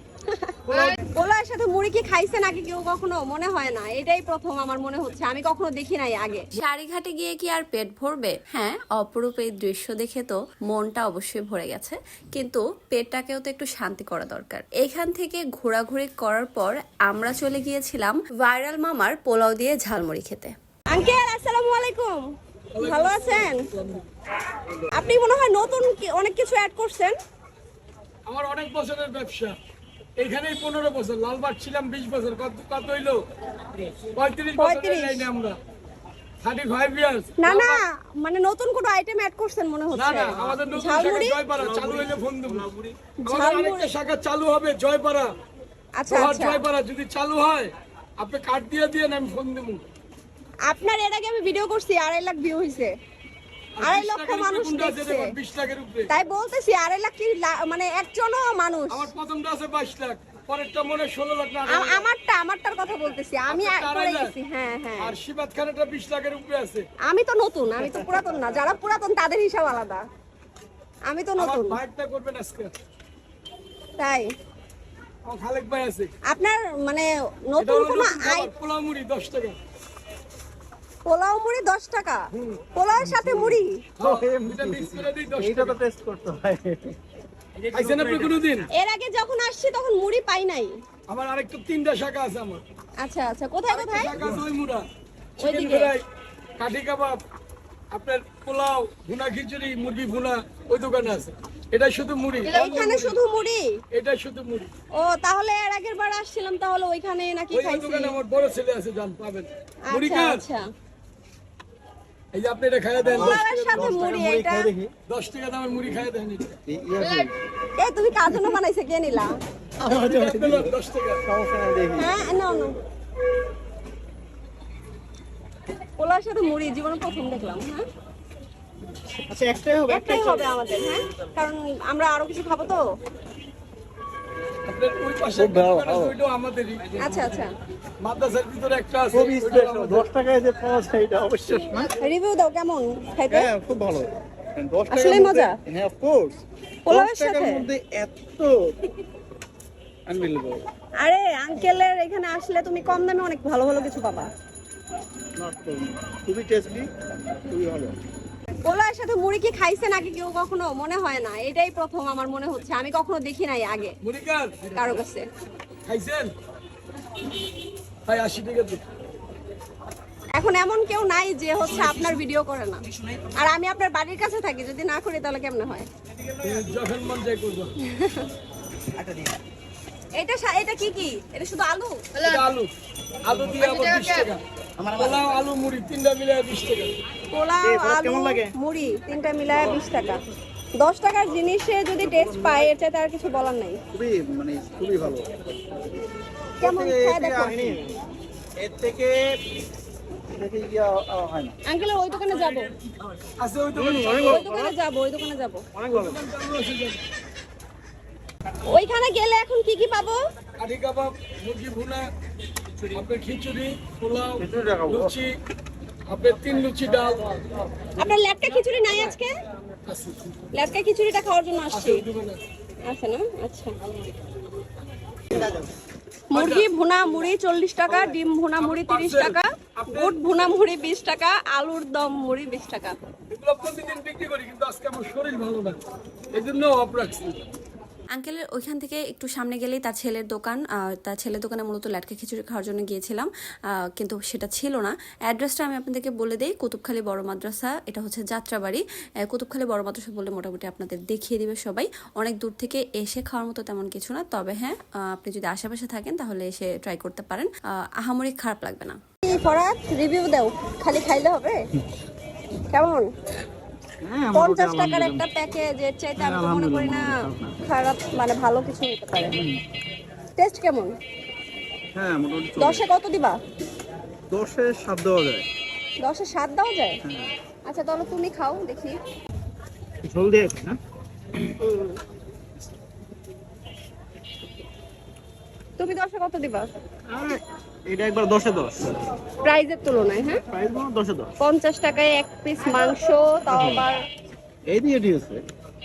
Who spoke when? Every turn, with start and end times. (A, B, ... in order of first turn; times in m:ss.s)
0:00.3-0:00.6 A
0:00.7-0:01.0 B
0:01.1-0:06.5 A
0:06.6-0:20.5 C
0:20.9-0:22.2 A
0:22.8-0:24.1 B
0:22.8-0:23.6 A
0:24.9-0:27.2 A
0:28.3-0:29.6 B
0:30.2-0:33.2 B
0:33.8-0:35.6 B
0:34.6-0:35.3 A
0:36.4-0:37.8 B
0:37.4-0:41.4 A
0:39.9-0:42.7 B
0:41.6-0:43.0 D
0:43.2-0:43.9 A
0:43.3-0:45.3 B
0:46.0-0:46.6 A
0:46.1-0:49.8 B
0:50.7-0:52.9 A
0:53.8-0:56.1 B
0:53.8-0:55.3 A
0:56.1-0:59.1 A
0:58.9-1:02.0 B
1:01.7-1:05.2 A
1:03.5-1:04.3 B
1:05.0-1:06.9 B
1:07.1-1:10.0 A
1:11.1-1:11.8 A
1:11.4-1:12.7 B
1:14.0-1:14.3 A
1:15.2-1:16.1 B
1:16.3-1:18.5 A
1:17.6-1:19.6 B
1:21.1-1:23.8 A
1:22.4-1:22.6 B
1:23.1-1:23.4 D
1:24.0-1:25.8 B
1:24.0-1:27.0 D
1:27.7-1:28.7 B
1:27.7-1:28.2 D
1:28.7-1:30.7 A
1:31.1-1:32.6 B
1:33.0-1:34.1 A
1:33.7-1:34.9 B
1:35.4-1:36.0 B
1:35.4-1:35.9 A
1:36.6-1:37.2 B
1:37.9-1:43.2 B
1:42.5-1:43.8 A
1:43.9-1:44.7 B
1:45.0-1:48.2 A
1:47.5-1:50.4 B
1:49.9-1:50.7 A
1:52.3-1:54.2 B
1:53.0-1:54.9 D
1:53.1-1:54.7 A
1:55.1-1:56.6 B
1:56.7-1:57.3 D
1:57.8-1:59.3 A
1:59.8-2:00.7 D
1:59.8-2:01.2 B
2:01.3-2:02.1 D
2:02.0-2:02.7 A
2:06.0-2:07.8 A
2:09.3-2:10.4 D
2:09.9-2:12.8 A
2:14.7-2:17.4 B
2:15.4-2:16.1 D
2:17.0-2:17.5 A
2:18.0-2:20.1 B
2:19.1-2:21.9 D
2:22.0-2:23.5 A
2:23.3-2:26.4 D
2:24.9-2:25.6 A
2:26.9-2:27.6 A
2:26.9-2:28.6 D
2:30.1-2:30.6 D
2:31.0-2:34.3 A
2:35.4-2:36.9 D
2:37.5-2:37.9 D
2:38.6-2:44.0 A
2:44.0-2:45.0 B
2:44.8-2:45.2 A
2:45.9-2:46.3 B
2:48.1-2:48.8 B
2:50.3-2:52.8 A
2:53.4-2:55.9 A
2:56.4-2:57.7 B
2:57.8-2:58.3 A
2:59.0-2:59.3 D
3:00.2-3:02.0 A
3:02.2-3:02.7 B
3:03.3-3:04.4 B
3:04.8-3:05.3 D
3:04.9-3:06.9 B
3:07.3-3:10.2 A
3:07.6-3:08.5 D
3:10.8-3:13.8 A
3:12.0-3:12.6 D
3:13.9-3:15.4 D
3:16.6-3:17.8 A
3:16.6-3:17.9 D
3:18.6-3:19.2 D
3:20.4-3:21.6 D
3:21.7-3:22.7 A
3:23.4-3:24.5 B
3:23.8-3:24.7 D
3:24.2-3:25.6 A
3:25.8-3:26.1 D
3:25.9-3:27.0 B
3:28.7-3:30.2 A
3:30.6-3:32.1 B
3:32.9-3:35.3 B
3:34.4-3:35.2 D
3:36.1-3:37.4 B
3:38.0-3:39.3 A
3:39.9-3:40.4 B
3:40.5-3:42.0 A
3:41.7-3:42.4 B
3:42.9-3:43.7 A
3:46.3-3:53.0 A
3:46.3-3:46.7 B
3:47.9-3:50.2 B
3:53.3-3:55.8 B
3:56.3-3:57.4 B
3:58.1-4:19.0 C
4:19.2-4:21.6 A
4:22.7-4:23.1 A
4:24.0-4:25.2 D
4:24.3-4:29.4 A
4:26.2-4:27.6 D
4:30.4-4:30.9 A
4:32.0-4:32.8 D
4:32.6-4:33.4 A
4:34.3-4:35.5 D
4:36.0-4:37.0 A
4:37.7-4:39.0 A
4:40.1-4:40.8 D
4:41.6-4:42.0 A
4:45.8-4:46.7 A
4:47.1-4:49.0 D
4:49.4-4:50.4 A
4:50.5-4:51.3 D
4:51.4-4:54.0 A
4:53.6-4:53.8 D
4:54.7-4:55.4 D